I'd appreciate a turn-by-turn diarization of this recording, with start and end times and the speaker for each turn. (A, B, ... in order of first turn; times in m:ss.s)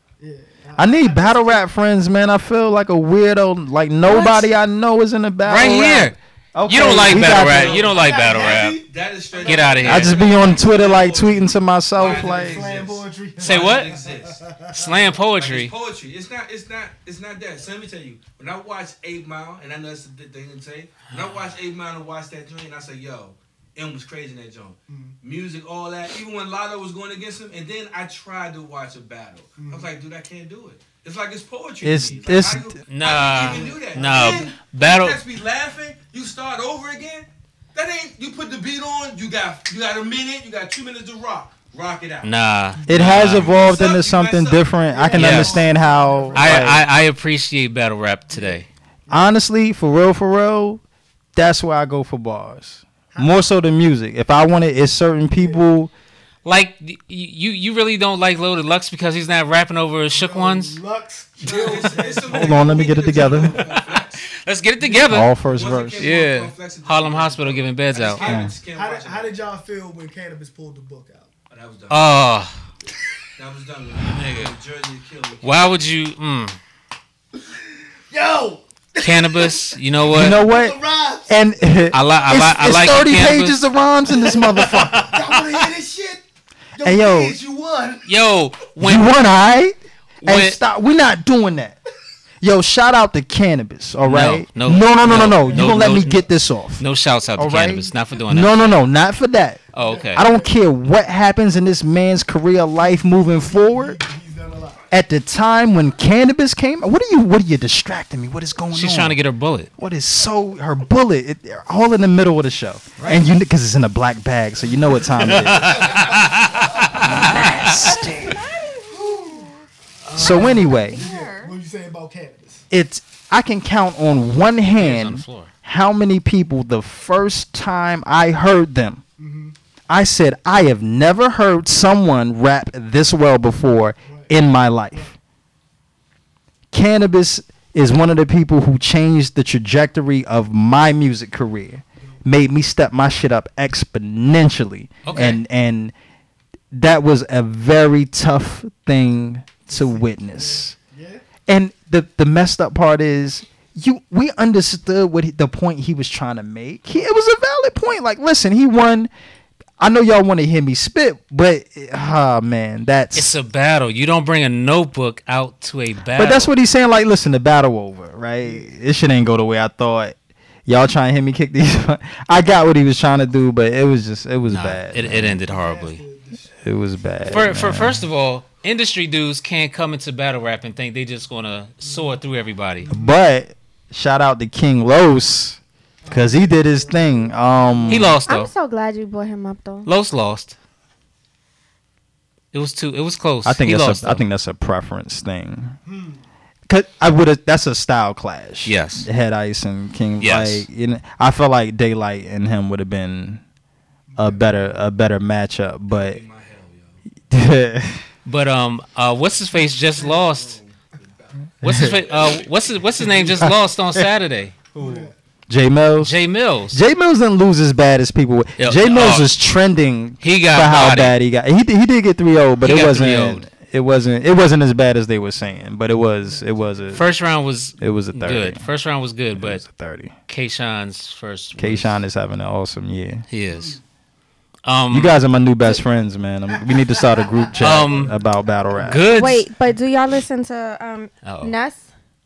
0:00.2-0:01.7 A
0:00.8-0:07.8 B
0:04.1-0:04.4 C
0:05.4-0:08.8 C
0:06.8-0:14.4 D
0:07.4-0:10.6 A
0:09.4-0:10.2 C
0:09.8-0:12.7 B
0:12.0-0:15.0 A
0:13.4-0:13.9 C
0:14.7-0:15.7 C
0:15.3-0:42.3 D
0:24.9-0:25.2 A
0:29.6-0:29.9 A
0:31.8-0:32.8 B
0:32.9-0:35.2 C
0:33.3-0:34.5 A
0:42.2-0:43.5 C
0:42.8-0:43.2 A
0:42.9-0:46.8 B
0:43.1-0:44.7 D
0:44.9-0:46.8 A
0:45.1-0:45.6 C
0:46.4-0:48.7 C
0:48.3-0:49.4 A
0:49.1-0:50.8 B
0:51.4-0:55.9 B
0:53.1-0:53.4 A
0:55.4-0:55.6 A
0:56.4-1:00.8 C
1:00.1-1:03.4 A
1:01.4-1:04.3 D
1:02.3-1:03.6 B
1:03.3-1:05.3 C
1:05.0-1:06.1 B
1:05.4-1:09.4 D
1:06.0-1:08.3 C
1:08.2-1:08.5 B
1:08.7-1:11.3 A
1:11.5-1:12.1 D
1:11.9-1:12.6 C
1:13.4-1:15.7 D
1:15.4-1:16.6 C
1:18.1-1:21.3 A
1:19.0-1:20.4 C
1:20.1-1:25.1 B
1:21.9-1:23.6 C
1:24.1-1:26.2 A
1:24.6-1:25.3 C
1:26.8-1:28.1 A
1:26.8-1:27.4 B
1:28.0-1:29.1 C
1:28.8-1:31.8 B
1:30.2-1:30.6 C
1:32.4-1:36.8 B
1:34.0-1:36.2 C
1:35.0-1:36.2 A
1:36.8-1:38.7 C
1:37.4-1:39.6 B
1:39.7-1:40.2 C
1:39.8-1:40.5 A
1:40.1-1:44.0 B
1:42.8-1:44.9 A
1:44.9-1:49.2 B
1:48.7-1:49.7 C
1:49.8-1:56.0 B
1:53.0-1:53.3 C
1:55.2-1:58.2 C
1:55.3-1:57.3 A
1:57.0-1:58.4 B
1:58.2-1:59.5 E
1:58.9-2:02.6 A
2:00.1-2:01.1 B
2:00.4-2:01.6 E
2:02.7-2:09.0 B
2:04.8-2:05.5 C
2:09.2-2:09.6 A
2:09.9-2:15.1 B
2:14.0-2:14.3 A
2:16.7-2:25.9 B
2:22.0-2:22.2 A
2:25.0-2:25.4 C
2:26.7-2:30.7 B
2:29.7-2:31.2 A
2:31.5-2:39.1 B
2:39.8-2:43.3 B
2:43.2-2:46.5 C
2:46.2-2:55.4 B
2:48.4-2:48.7 A
2:54.5-2:56.0 C
2:55.4-2:56.5 A
2:56.6-2:58.1 B
2:57.2-3:02.9 C
3:01.8-3:02.2 A
3:02.8-3:03.2 A
3:02.9-3:08.2 B
3:06.0-3:08.2 A
3:07.9-3:08.5 C
3:08.3-3:09.9 E
3:09.8-3:10.6 C
3:12.5-3:14.2 C
3:13.4-3:15.8 B
3:15.8-3:16.2 A
3:16.7-3:23.4 B
3:18.6-3:19.1 C
3:20.2-3:20.7 C
3:24.1-3:24.7 A
3:24.2-3:26.2 B
3:25.9-3:27.0 D
3:27.3-3:28.0 B
3:28.2-3:30.6 C
3:29.9-3:32.7 D
3:31.6-3:34.6 C
3:31.7-3:31.9 B
3:33.2-3:34.1 B
3:34.8-3:35.2 A
3:34.8-3:36.2 B
3:36.0-3:36.8 C
3:36.7-3:47.1 B
3:38.6-3:39.3 C
3:40.2-3:41.2 C
3:42.6-3:43.5 C
3:45.4-3:47.2 A
3:46.9-3:49.6 C
3:47.8-3:48.7 B
3:49.4-3:50.1 B
3:50.3-3:52.0 C
3:51.6-3:53.2 B
3:53.3-3:53.8 C
3:53.5-3:53.8 A
3:54.6-3:55.2 C
3:54.9-3:59.1 B
3:57.6-3:58.2 C
3:57.6-3:59.1 A
3:58.8-3:59.5 C
3:59.1-4:01.9 E
4:01.2-4:01.5 C